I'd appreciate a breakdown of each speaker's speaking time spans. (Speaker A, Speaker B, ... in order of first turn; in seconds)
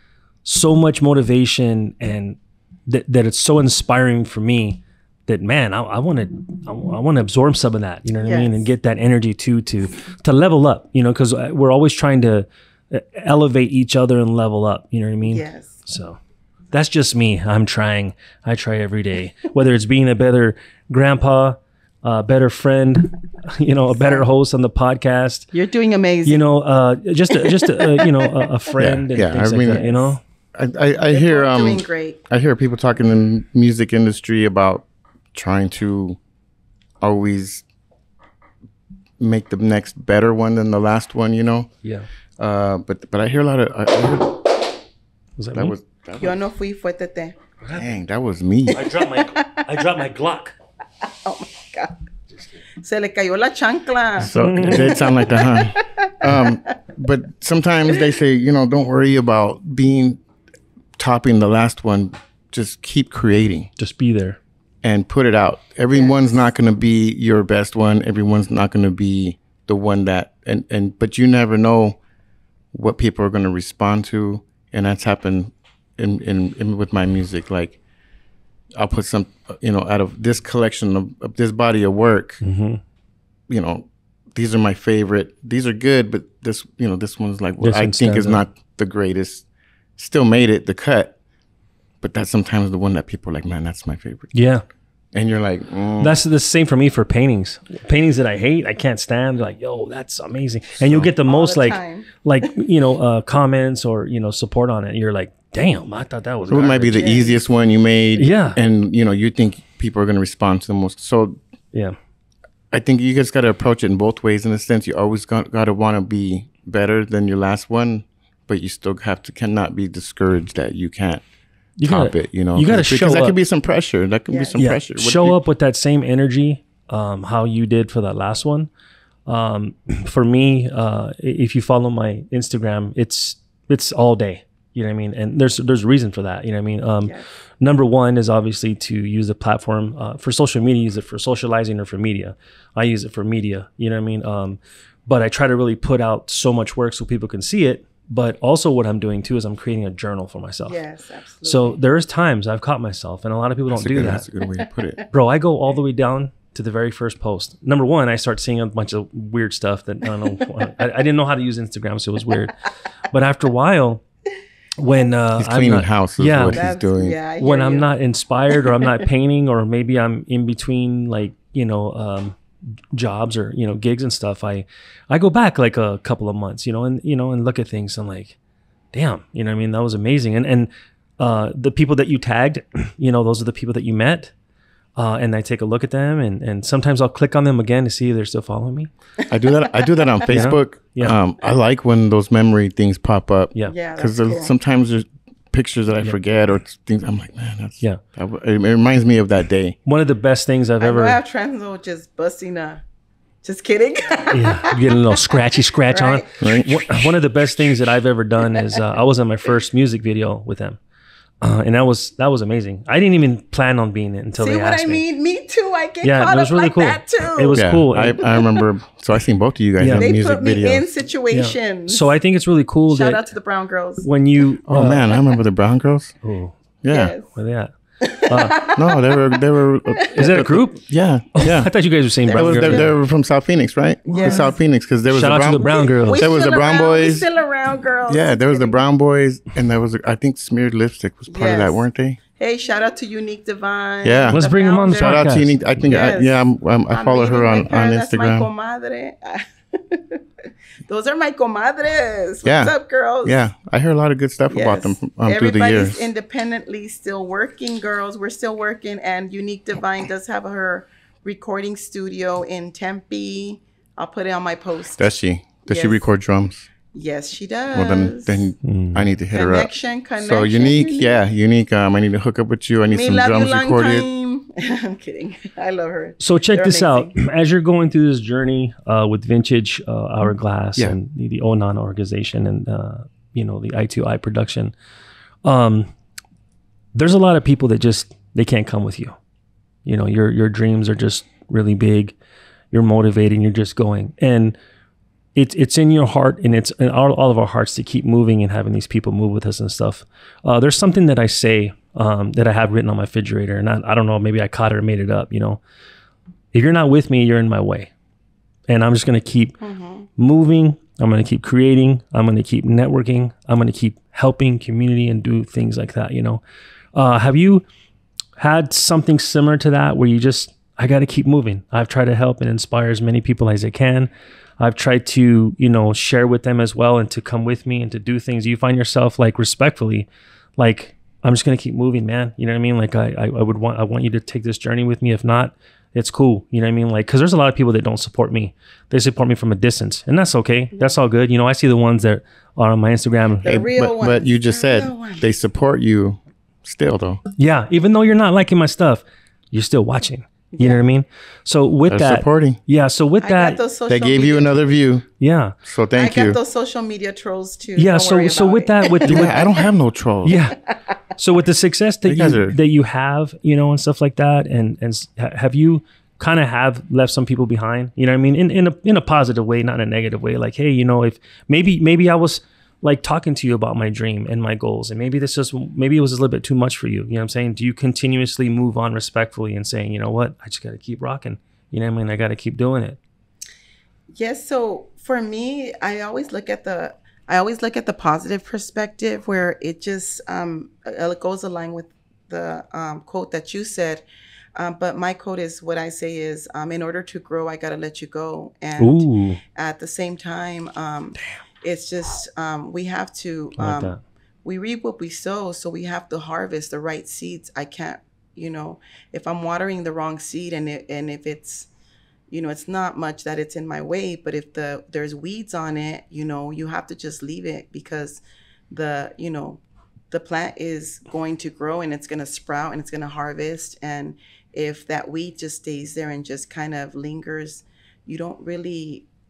Speaker A: 0.4-16.2, 16.7-25.5, 26.3-30.2, 45.4-45.7, 47.6-47.9, 48.7-50.5, 54.3-55.3, 63.8-64.4, 82.4-82.8, 87.6-88.4, 94.3-94.6, 96.0-107.2, 108.2-108.6, 121.8-123.4, 124.6-128.7, 129.3-150.8, 151.4-154.3, 155.1-164.0, 164.8-166.7, 167.4-172.4, 172.9-178.4, 178.9-184.3, 184.9-188.9, 190.3-191.2, 199.9-201.2, 204.3-210.8, 211.4-215.0, 216.0-218.2, 219.8-220.1, 221.3-223.2, 224.0-225.1, 226.2-226.5, 227.3-228.7, 230.1-230.8, 231.4-232.9, 235.1-236.2, 244.3-246.1, 268.6-269.1, 276.2-284.7, 285.4-285.9, 286.9-289.1, 289.9-292.1, 292.7-294.6, 295.4-305.6, 306.5-307.9, 308.7-309.6, 310.2-316.4, 316.9-317.6, 318.4-330.1, 330.6-343.6, 347.4-353.6, 355.2-355.5, 357.8-359.4, 360.2-360.6, 361.1-383.0, 398.8-399.4, 403.6-404.0
Speaker B: 8.2-8.7, 15.2-15.8, 24.0-24.3, 25.5-26.4, 27.4-28.4, 29.7-30.1, 31.1-32.2, 46.2-47.4, 48.8-49.6, 51.1-52.0, 52.8-56.7, 65.9-66.3, 101.3-102.1, 106.9-107.4, 124.3-124.6, 150.7-151.7, 166.5-167.9, 168.5-169.0, 193.7-194.5, 200.8-202.8, 203.4-205.4, 205.9-206.3, 214.4-217.6, 218.2-218.6, 219.9-222.1, 222.9-224.1, 226.9-227.3, 228.0-230.2, 232.2-232.9, 234.1-234.6, 235.6-238.8, 241.3-245.3, 245.8-250.2, 250.9-253.4, 254.5-265.1, 265.7-266.1, 266.9-268.5, 269.3-271.2, 272.9-277.1, 309.6-310.1, 343.4-345.3, 350.6-350.8, 353.2-354.6, 355.9-359.6, 384.1-394.0, 394.6-411.7, 412.3-429.1
Speaker C: 28.8-29.9, 30.5-36.2, 37.0-37.6, 39.2-41.7, 42.4-44.7, 45.5-46.4, 47.7-48.9, 54.2-60.2, 61.0-63.7, 64.8-72.0, 72.7-77.8, 78.8-82.4, 83.5-89.4, 90.0-91.2, 92.0-94.3, 95.1-96.2, 100.8-101.1, 106.4-111.4, 112.7-121.2, 121.8-125.4, 153.7-155.1, 165.3-167.2, 189.3-199.8, 206.4-207.1, 217.6-220.9, 224.7-226.1, 226.8-227.1, 228.8-231.7, 232.3-237.3, 238.1-242.2, 244.0-244.4, 244.9-248.5, 252.4-252.7, 253.2-256.1, 265.0-266.7, 267.7-274.1, 343.4-347.2, 351.9-352.6, 353.9-355.1, 355.6-356.4, 359.0-360.4, 362.1-362.6